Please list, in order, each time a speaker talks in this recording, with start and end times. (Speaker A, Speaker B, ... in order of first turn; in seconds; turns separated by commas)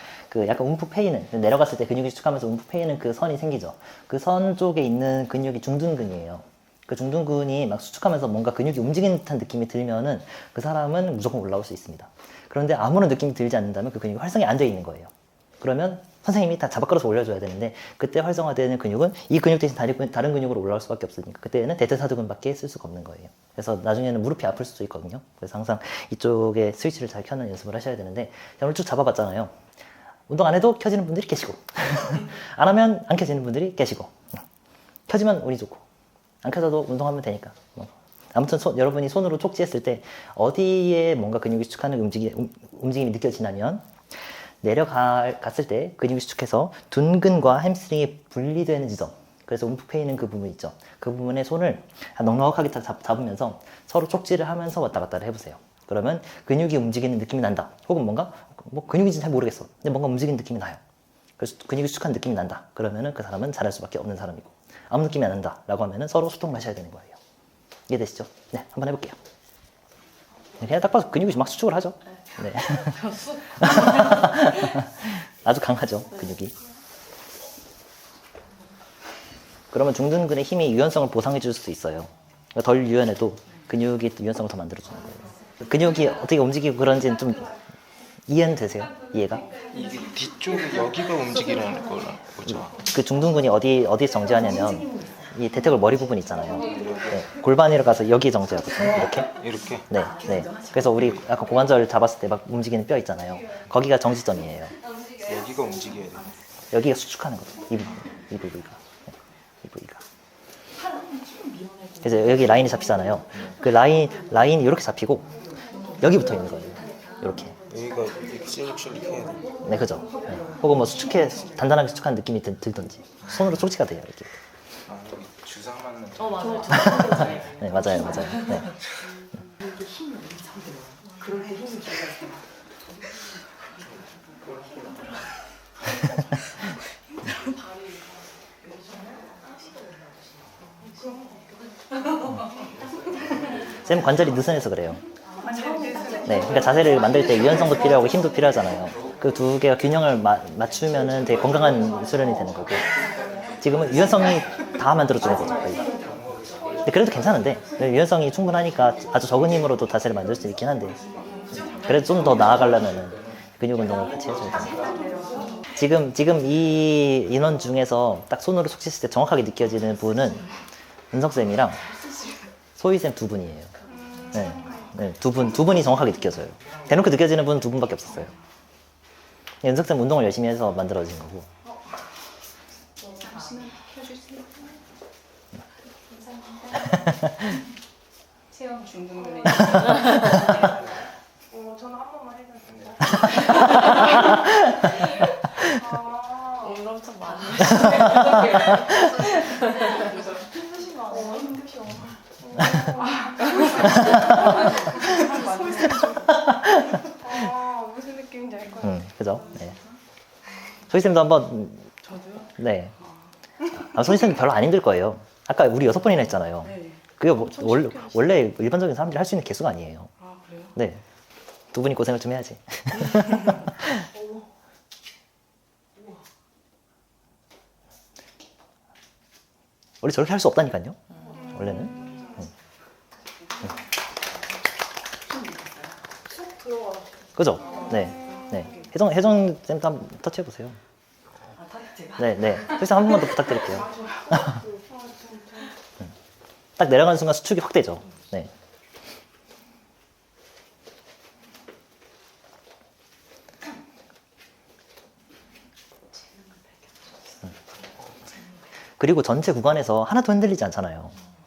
Speaker A: 0.3-29.6, Speaker A: 30.3-34.4, Speaker A: 35.1-35.8, Speaker A: 36.4-43.9, Speaker A: 44.6-60.8, Speaker A: 61.4-67.2, Speaker A: 67.9-69.2, Speaker A: 70.6-76.5, Speaker A: 79.7-87.5, Speaker A: 88.3-89.5, Speaker B: 89.8-92.7, Speaker A: 92.5-104.7, Speaker B: 96.7-97.0, Speaker B: 99.4-99.8, Speaker B: 105.2-106.3, Speaker A: 106.7-108.8, Speaker A: 109.6-110.0, Speaker A: 112.0-115.3, Speaker A: 116.0-117.6, Speaker B: 117.7-119.5, Speaker A: 119.6-124.3, Speaker B: 124.9-126.6, Speaker C: 126.3-127.2, Speaker A: 126.6-128.7, Speaker A: 143.8-145.0, Speaker A: 146.2-152.8, Speaker A: 153.6-155.9, Speaker A: 156.8-161.0, Speaker A: 161.5-164.8, Speaker A: 165.7-170.4, Speaker A: 171.1-171.8, Speaker A: 172.8-173.7, Speaker A: 174.3-178.3, Speaker A: 179.6-181.5, Speaker C: 183.0-184.6, Speaker C: 186.1-186.9, Speaker A: 186.8-187.5, Speaker C: 188.5-190.5, Speaker A: 189.7-190.5, Speaker D: 191.5-192.7, Speaker A: 193.3-195.8, Speaker D: 195.9-196.8, Speaker C: 196.6-200.0, Speaker A: 198.1-199.0, Speaker C: 200.9-201.6, Speaker D: 201.3-201.7, Speaker A: 202.6-202.9, Speaker D: 202.8-206.0, Speaker A: 203.7-207.5, Speaker C: 205.0-205.7, Speaker D: 207.3-208.8, Speaker A: 208.8-209.8, Speaker A: 210.9-211.9, Speaker A: 212.5-212.9, Speaker A: 213.7-220.1, Speaker A: 220.7-221.0, Speaker A: 221.7-224.0, Speaker A: 230.0-232.5, Speaker D: 236.6-236.9, Speaker A: 237.3-240.8, Speaker A: 242.2-244.6, Speaker D: 244.9-245.6, Speaker A: 246.8-248.5, Speaker A: 259.0-261.1